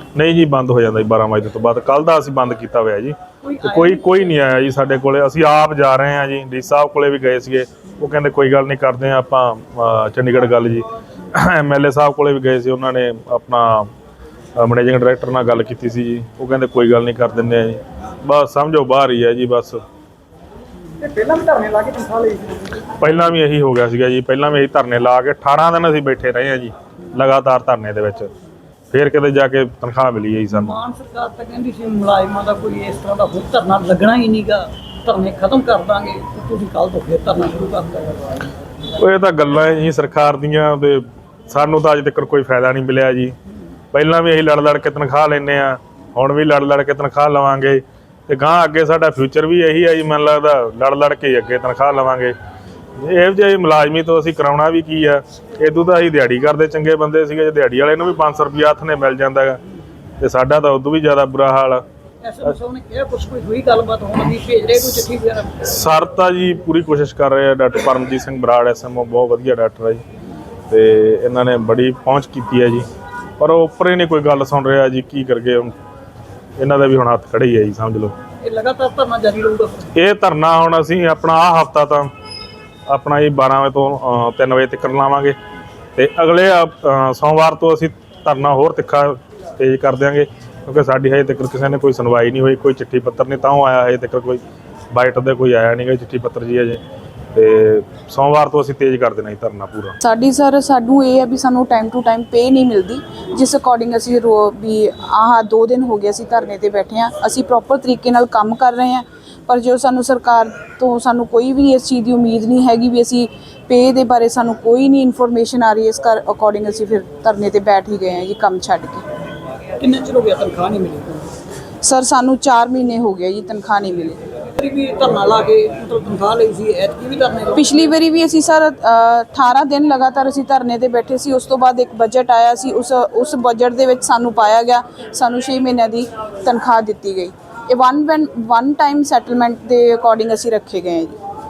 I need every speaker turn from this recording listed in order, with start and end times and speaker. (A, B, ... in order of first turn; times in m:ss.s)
0:00.1-0:13.9 A
0:03.4-0:04.1 B
0:14.6-0:19.8 A
0:21.0-0:22.6 B
0:23.0-0:28.3 A
0:28.9-0:30.8 A
0:30.5-0:38.3 B
0:38.9-0:43.3 A
0:43.9-0:52.3 A
0:53.0-0:59.6 A
1:00.2-1:01.8 A
1:02.2-1:05.6 B
1:05.6-1:10.0 A
1:10.7-1:12.8 A
1:13.4-1:15.7 A
1:16.6-1:18.2 A
1:18.4-1:19.9 B
1:19.9-1:22.1 A
1:22.9-1:25.4 A
1:26.0-1:36.8 A
1:37.3-1:40.0 A
1:40.0-1:59.0 C
1:59.8-2:01.3 B
2:01.8-2:04.2 C
2:04.6-2:07.7 B
2:07.6-2:21.1 C